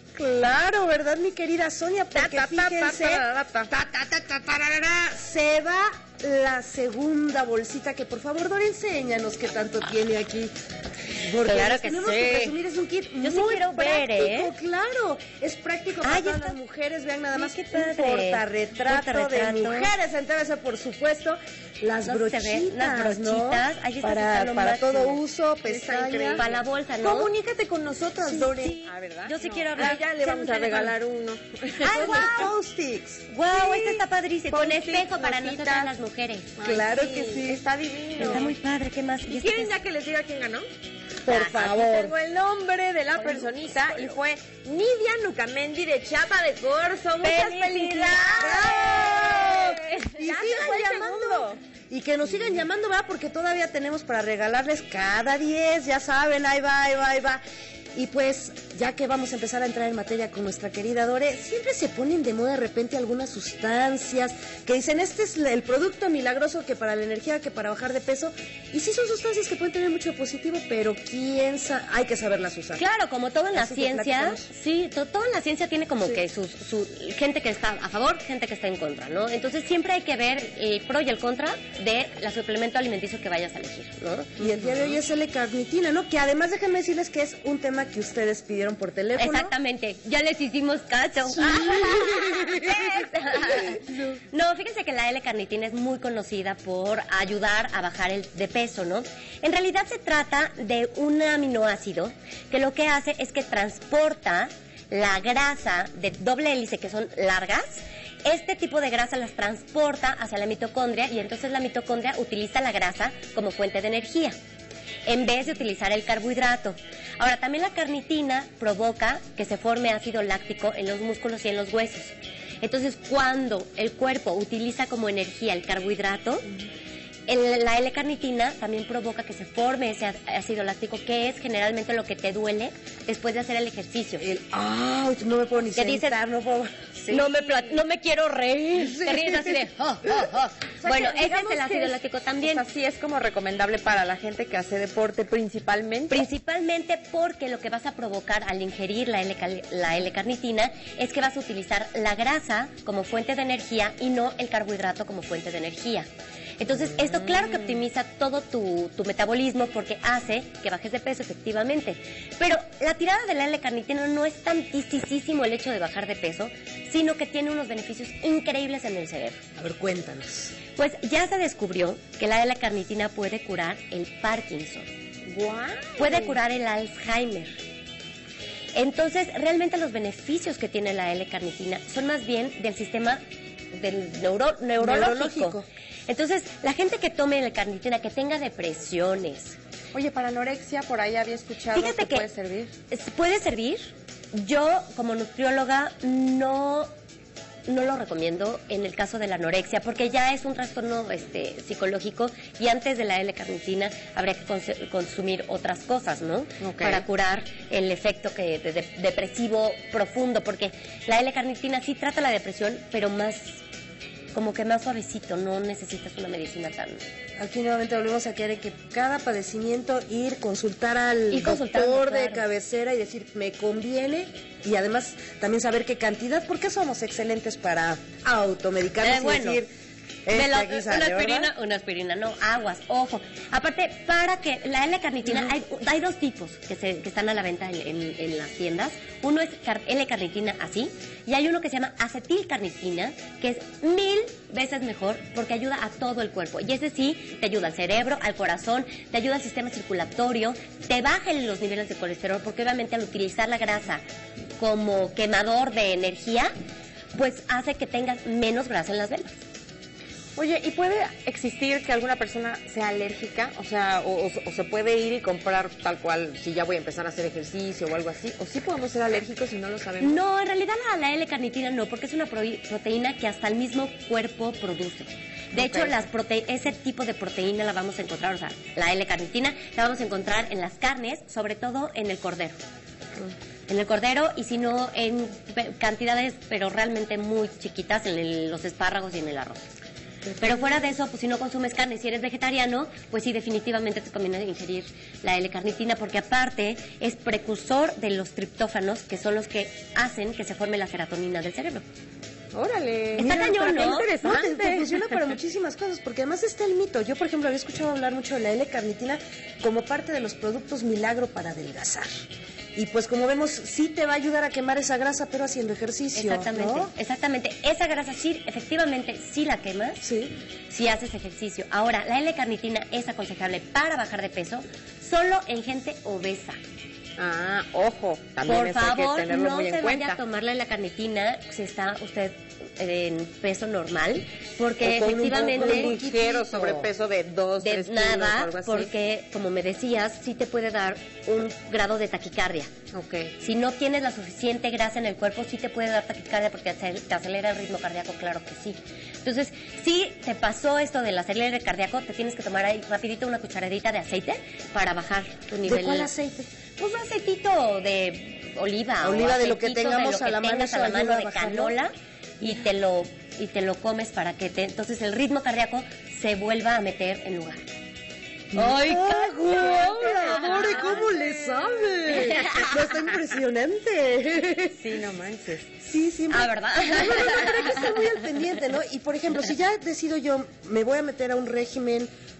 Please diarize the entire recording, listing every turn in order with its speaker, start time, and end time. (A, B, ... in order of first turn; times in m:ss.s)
0:00.2-0:10.5 A
0:02.1-0:03.7 B
0:11.2-0:26.4 A
0:11.4-0:12.5 C
0:13.2-0:14.5 C
0:16.0-0:16.6 C
0:17.3-0:19.9 C
0:22.0-0:25.2 C
0:25.6-0:26.5 B
0:26.4-0:27.3 C
0:27.0-0:32.5 B
0:28.2-0:28.7 A
0:28.6-0:30.0 C
0:29.8-0:30.9 A
0:31.8-0:32.5 C
0:31.8-0:33.2 A
0:33.3-0:36.5 C
0:33.5-0:35.9 B
0:36.6-0:38.5 B
0:36.6-0:37.6 A
0:38.2-0:39.8 C
0:38.2-0:38.5 A
0:39.3-0:40.6 B
0:41.2-0:42.1 A
0:41.3-0:41.8 C
0:41.4-0:51.6 B
0:43.1-0:44.2 C
0:47.2-0:49.1 C
0:48.4-0:57.4 A
0:57.9-1:12.8 A
1:12.8-1:24.4 C
1:13.5-1:14.5 A
1:24.4-1:29.5 A
1:29.2-1:54.3 C
1:31.3-1:34.0 A
1:55.0-2:06.4 C
2:07.3-2:14.2 C
2:14.2-2:17.2 A
2:15.7-2:16.2 C
2:17.1-2:22.6 C
2:18.7-2:20.2 A
2:20.8-2:26.2 B
2:26.1-2:36.1 C
2:36.6-2:49.4 C
2:49.6-2:50.5 A
2:50.8-2:54.9 C
2:55.2-2:56.4 B
2:56.0-2:57.6 C
2:58.7-3:03.2 C
3:03.7-3:09.6 C
3:04.8-3:05.7 A
3:09.9-3:12.7 B
3:11.7-3:12.2 C
3:12.9-3:16.9 C
3:17.7-3:33.6 C
3:26.6-3:27.0 B
3:34.3-3:37.0 C
3:37.4-3:49.7 A
3:41.3-3:42.4 C
3:49.0-3:49.6 C
3:50.2-3:51.5 A
3:50.3-4:14.0 C
4:14.6-4:16.5 C
4:17.1-4:19.4 C
4:20.4-4:30.2 B
4:30.0-4:42.6 C
4:35.5-4:36.0 B
4:43.7-4:49.6 C
4:50.4-5:01.8 C
5:02.5-5:05.1 B
5:03.2-5:04.1 C
5:03.2-5:12.1 A
5:12.8-5:16.9 A
5:16.1-5:20.0 C
5:20.0-5:20.3 A
5:20.7-5:26.6 C
5:27.2-5:30.2 B
5:28.4-5:35.9 C
5:34.8-5:36.9 A
5:34.9-5:38.9 B
5:37.6-5:42.7 C
5:42.9-5:43.3 B
5:43.4-5:56.1 C
5:55.6-5:56.5 A
5:56.8-6:07.7 C
5:59.0-6:01.8 A
6:08.5-6:14.8 A
6:08.5-6:10.9 C
6:10.3-6:12.3 B
6:12.1-6:12.7 C
6:14.7-6:15.7 B
6:15.8-6:22.1 A
6:16.3-6:18.1 C